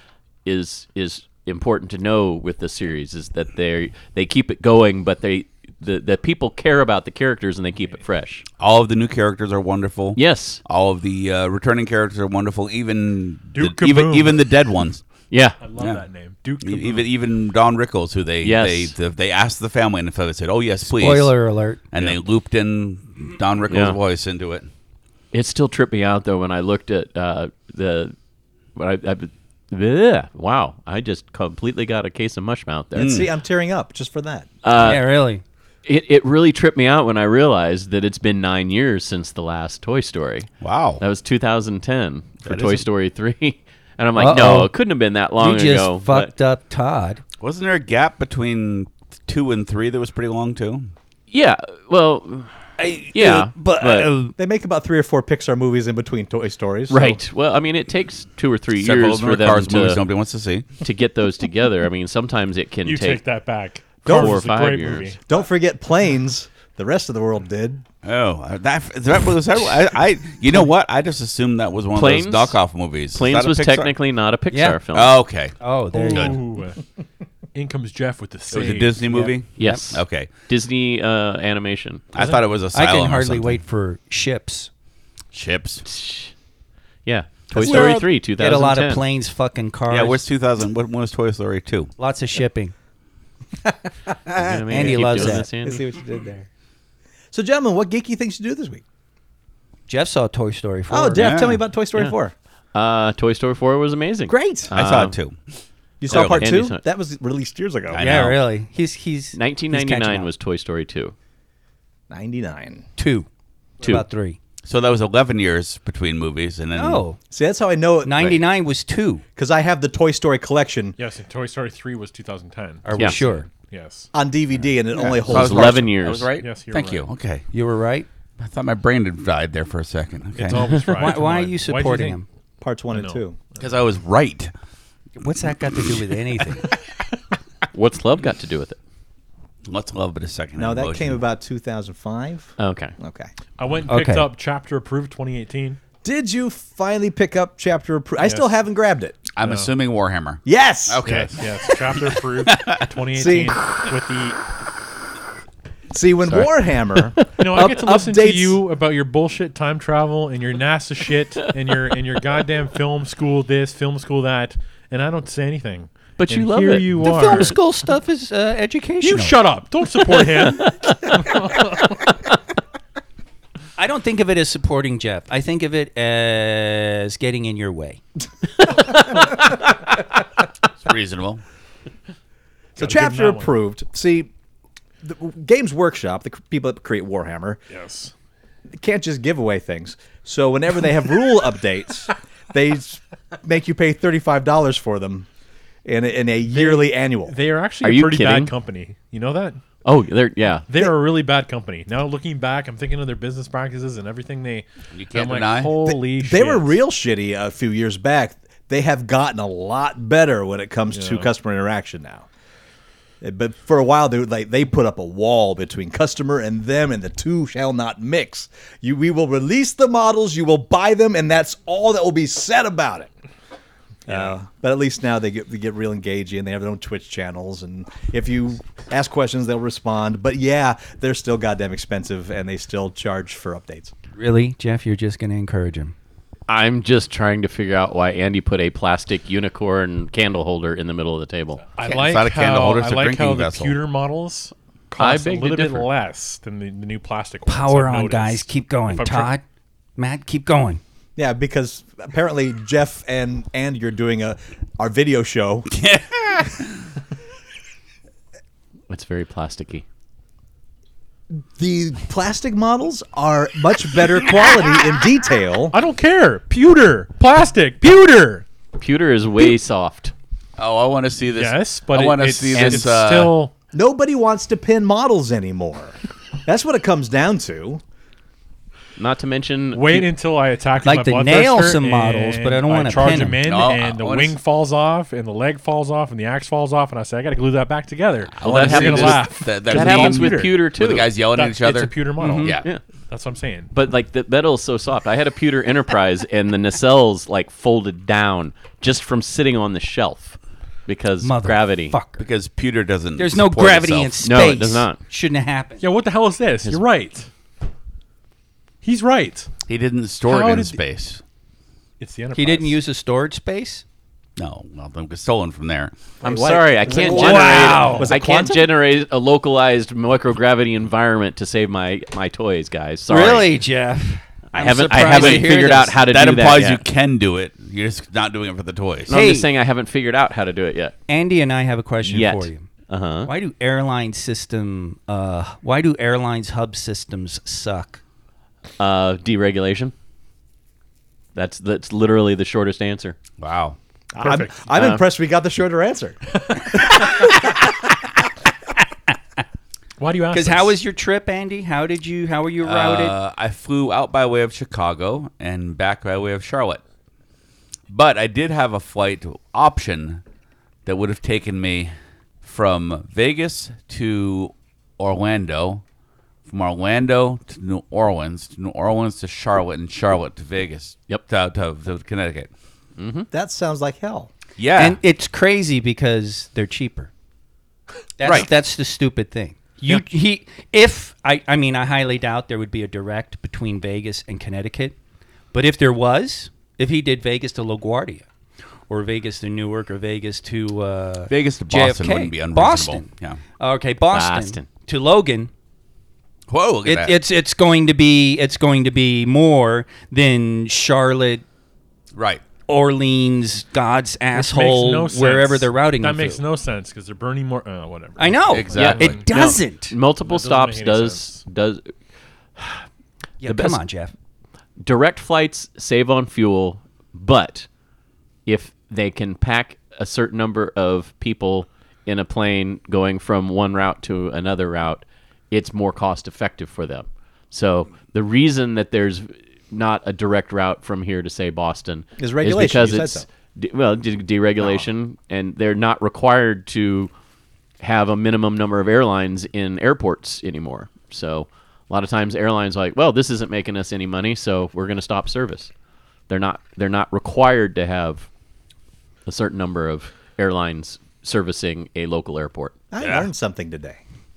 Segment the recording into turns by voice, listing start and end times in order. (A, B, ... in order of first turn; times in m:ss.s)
0:00.4-0:08.5 A
0:08.6-0:15.0 B
0:10.2-0:10.6 A
0:13.5-0:14.4 C
0:15.3-0:15.6 A
0:15.6-0:17.0 C
0:16.6-0:21.4 B
0:18.4-0:18.9 A
0:20.9-0:21.8 D
0:21.9-0:24.7 B
0:23.7-0:24.0 A
0:25.3-0:28.2 A
0:28.8-0:33.2 A
0:33.0-0:34.5 E
0:33.0-0:33.3 B
0:34.6-0:35.0 A
0:34.8-0:35.4 D
0:35.9-0:46.3 A
0:40.6-0:41.0 B
0:42.4-0:42.9 E
0:44.2-0:44.7 D
0:45.4-0:47.2 D
0:47.4-0:50.9 B
0:51.3-0:52.5 A
0:52.8-0:54.3 D
0:53.1-0:54.1 A
0:54.4-0:57.2 E
0:56.9-1:00.0 A
0:58.8-1:00.7 B
1:00.8-1:03.2 A
1:02.8-1:05.2 C
1:04.0-1:05.1 A
1:04.0-1:04.4 E
1:05.3-1:07.8 E
1:08.0-1:13.9 B
1:11.9-1:12.6 A
1:13.1-1:15.2 A
1:14.5-1:14.8 D
1:14.9-1:15.6 B
1:15.6-1:16.4 D
1:15.9-1:16.8 C
1:16.1-1:16.4 B
1:17.5-1:19.1 C
1:18.5-1:20.3 B
1:19.1-1:20.0 D
1:19.6-1:22.0 A
1:22.1-1:23.6 B
1:22.2-1:22.4 C
1:22.7-1:24.7 D
1:25.3-1:25.8 B
1:25.9-1:26.3 A
1:27.1-1:29.0 A
1:27.5-1:30.2 D
1:27.6-1:27.9 B
1:29.9-1:31.9 B
1:32.0-1:32.7 D
1:33.6-1:36.5 E
1:34.4-1:35.8 A
1:34.7-1:35.5 D
1:37.3-1:38.8 E
1:39.9-1:41.3 D
1:40.9-1:42.4 E
1:41.2-1:41.6 B
1:42.7-1:45.2 A
1:44.3-1:44.7 E
1:44.7-1:45.4 B
1:46.0-1:48.0 E
1:46.1-1:46.5 B
1:46.1-1:46.8 A
1:47.9-1:48.4 B
1:48.0-1:50.3 D
1:49.3-1:51.1 A
1:52.1-1:52.8 E
1:53.0-1:53.3 D
1:53.8-1:54.4 D
1:54.7-1:57.0 B
1:56.7-1:57.2 D
1:57.3-1:58.4 E
1:58.0-1:59.2 D
1:59.4-2:01.0 E
2:01.0-2:04.1 C
2:02.8-2:03.5 D
2:04.1-2:05.9 E
2:05.1-2:07.4 B
2:05.3-2:06.3 A
2:06.4-2:07.1 C
2:07.5-2:08.1 D
2:08.4-2:10.8 B
2:10.4-2:12.2 C
2:10.6-2:11.0 A
2:11.0-2:12.2 D
2:12.6-2:13.4 E
2:12.9-2:13.6 C
2:13.6-2:14.5 B
2:15.2-2:16.7 D
2:17.7-2:18.8 A
2:19.7-2:21.2 B
2:20.6-2:23.3 E
2:22.6-2:22.9 A
2:23.6-2:25.8 C
2:23.9-2:24.3 D
2:26.0-2:29.2 E
2:28.2-2:28.5 C
2:29.4-2:32.9 B
2:29.4-2:29.7 C
2:30.4-2:31.0 E
2:31.0-2:34.4 C
2:33.2-2:33.6 E
2:35.9-2:38.6 E
2:37.4-2:47.6 C
2:46.2-2:47.5 A
2:47.0-2:49.4 D
2:49.0-2:52.0 C
2:50.5-2:51.2 A
2:53.8-2:58.0 D
2:58.8-2:59.4 A
3:00.8-3:01.4 B
3:02.8-3:04.3 E
3:02.8-3:03.5 C
3:05.0-3:07.6 E
3:07.7-3:08.1 C
3:08.7-3:15.3 E
3:15.9-3:17.4 E
3:16.5-3:19.6 C
3:17.8-3:18.5 A
3:19.8-3:20.7 A
3:20.7-3:26.8 C
3:24.9-3:25.8 B
3:25.9-3:32.3 E
3:30.9-3:31.3 C
3:33.2-3:43.1 E
3:44.1-3:53.9 E
3:54.2-3:55.9 D
3:56.5-4:01.6 A
4:01.8-4:09.3 C
4:01.8-4:03.8 B
4:05.0-4:05.9 A
4:07.5-4:09.4 D
4:10.0-4:10.8 D
4:11.2-4:15.7 E
4:15.7-4:16.8 B
4:18.9-4:19.8 A
4:21.3-4:25.8 E
4:25.7-4:28.4 C
4:28.8-4:30.1 A
4:30.6-4:33.4 B
4:31.3-4:33.5 C
4:32.6-4:33.0 A
4:33.7-4:37.8 E
4:39.0-4:40.1 A
4:39.7-4:50.7 C
4:40.8-4:43.4 D
4:43.4-4:44.4 B
4:48.3-4:52.7 B
4:48.4-4:51.1 A
4:51.2-4:52.6 C
4:52.2-4:52.6 D
4:53.1-4:53.7 C
4:53.7-5:02.0 A
5:01.2-5:02.3 D
5:02.2-5:04.4 B
5:03.2-5:05.8 D
5:04.2-5:05.0 A
5:05.8-5:07.3 C
5:08.8-5:09.5 C
5:09.7-5:11.2 B
5:10.3-5:10.8 C
5:12.0-5:12.8 C
5:12.4-5:13.8 D
5:14.4-5:16.0 B
5:16.2-5:18.7 E
5:16.2-5:23.6 A
5:17.0-5:18.1 D
5:17.7-5:18.0 C
5:23.1-5:25.9 D
5:24.5-5:26.8 A
5:24.9-5:29.4 B
5:29.1-5:31.0 A
5:29.1-5:29.5 D
5:31.1-5:32.7 D
5:32.0-5:33.3 A
5:33.2-5:38.0 D
5:38.8-5:39.9 A
5:41.4-5:43.2 A
5:43.4-5:43.8 B
5:44.2-5:47.0 E
5:44.2-5:44.7 C
5:46.6-5:47.2 C
5:50.0-5:50.8 C
5:50.3-5:53.2 D
5:52.6-5:56.8 B
5:57.9-6:00.2 B
6:00.8-6:05.8 B
6:06.5-6:12.5 B
6:13.0-6:13.3 A
6:13.3-6:14.3 E
6:14.6-6:15.0 B
6:14.8-6:17.1 D
6:18.2-6:25.0 D
6:25.5-6:28.3 D
6:28.9-6:35.5 D
6:31.3-6:33.4 B
6:34.1-6:34.6 A
6:36.5-6:37.2 B
6:36.8-6:41.4 D
6:42.2-6:42.4 B
6:42.7-6:46.4 D
6:44.3-6:49.3 C
6:48.2-6:50.0 D
6:48.5-6:49.2 B
6:48.7-6:51.9 A
6:50.2-6:51.4 C
6:52.6-6:52.8 A
6:53.4-6:54.1 D
6:53.4-6:53.8 A
6:54.8-6:57.7 A
6:58.5-7:17.1 A
7:12.2-7:13.3 E
7:17.8-7:25.7 A
7:26.3-7:28.3 A
7:29.3-7:32.8 A
7:32.9-7:34.0 E
7:33.0-7:33.3 B